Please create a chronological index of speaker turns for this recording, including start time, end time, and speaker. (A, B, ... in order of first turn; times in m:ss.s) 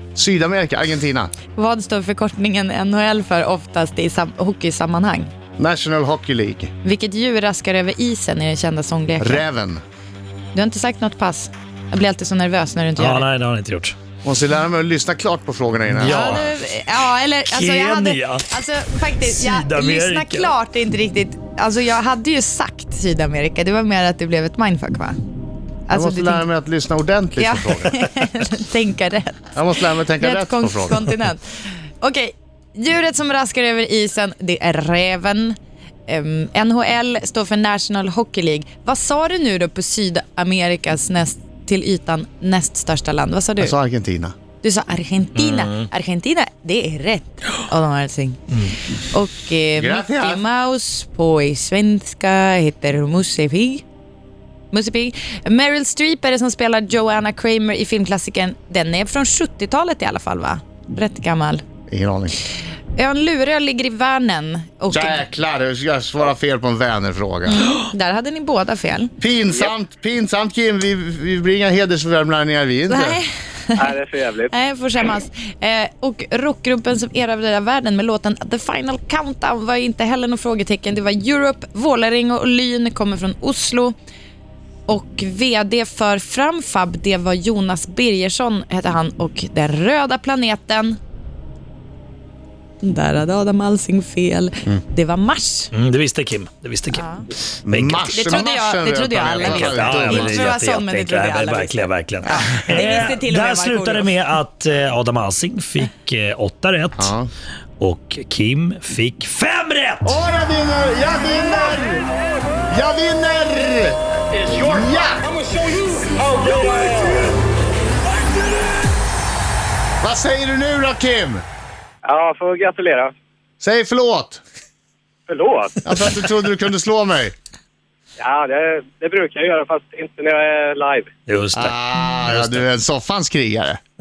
0:00.2-0:01.3 A
0:01.6-0:05.3 B
0:05.6-0:06.7 A
0:06.8-0:09.4 B
0:09.2-0:09.8 A
0:10.5-0:13.3 B
0:13.0-0:14.0 C
0:14.2-0:16.4 A
0:15.9-0:16.5 C
0:16.0-0:25.2 B
0:17.5-0:18.4 C
0:19.2-0:20.5 C
0:25.9-0:26.4 B
0:25.9-0:28.0 A
0:27.4-0:31.5 B
0:29.6-0:31.1 A
0:32.0-0:35.6 B
0:36.1-0:43.7 B
0:43.6-0:44.4 A
0:44.6-0:48.4 B
0:45.4-0:45.8 C
0:49.1-0:53.8 B
0:49.8-0:50.4 A
0:54.7-1:01.6 B
1:01.9-1:02.4 A
1:03.0-1:05.2 B
1:04.9-1:07.7 A
1:07.5-1:09.1 B
1:09.2-1:13.2 A
1:12.9-1:14.0 B
1:13.8-1:14.5 D
1:14.5-1:23.9 B
1:24.9-1:31.0 B
1:32.8-1:35.7 B
1:35.7-1:37.0 C
1:36.9-1:37.3 B
1:37.7-1:40.5 A
1:37.7-1:38.4 C
1:38.1-1:44.1 B
1:39.4-1:47.1 C
1:47.0-1:47.3 A
1:47.8-1:50.2 C
1:50.0-1:52.1 A
1:52.7-1:55.3 A
2:00.0-2:01.4 A
2:02.0-2:03.1 D
2:03.6-2:04.4 A
2:05.3-2:05.8 D
2:05.8-2:07.3 A
2:08.2-2:11.1 D
2:11.3-2:11.8 C
2:11.5-2:13.8 A
2:12.3-2:12.6 C